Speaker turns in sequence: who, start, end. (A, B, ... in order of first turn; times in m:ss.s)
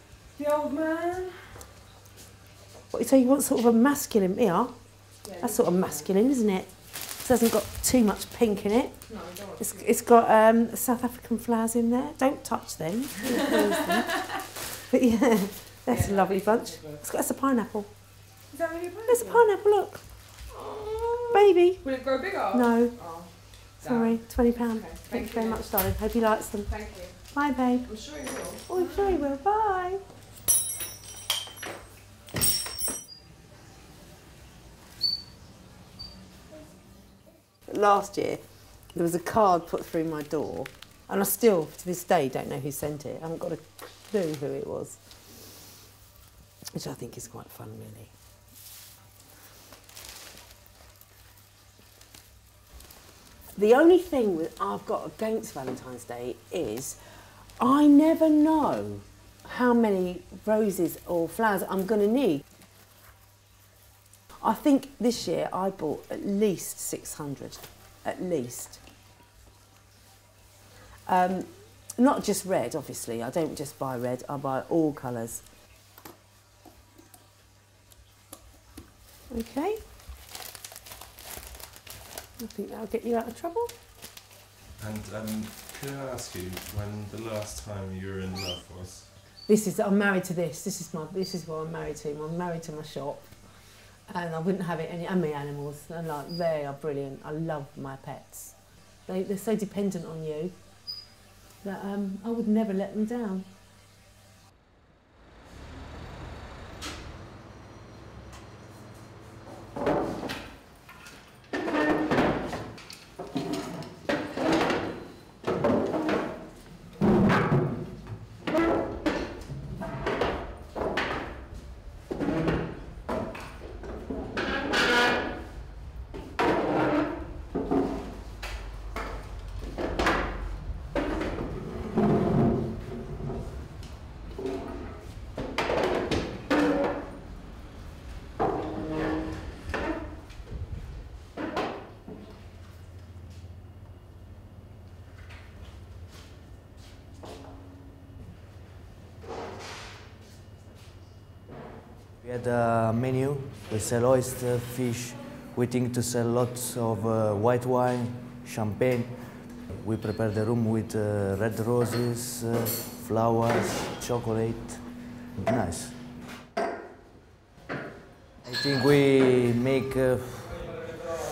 0:00.4-0:01.4 A
0:02.9-0:17.9 B
0:09.1-0:09.8 A
0:18.5-0:19.3 A
0:19.0-0:20.3 B
0:20.5-0:21.2 A
0:21.3-0:30.0 B
0:21.8-0:23.2 A
0:26.7-0:27.1 A
0:27.9-0:28.8 A
0:37.7-0:45.5 B
0:46.7-0:48.1 B
0:53.5-0:57.0 B
0:57.6-1:02.4 B
1:04.4-1:08.8 B
1:11.1-1:15.4 B
1:19.3-1:19.8 B
1:22.4-1:23.7 B
1:24.8-1:29.1 C
1:29.4-1:40.9 B
1:41.6-1:43.5 B
2:32.2-2:46.0 D
2:48.4-2:50.9 D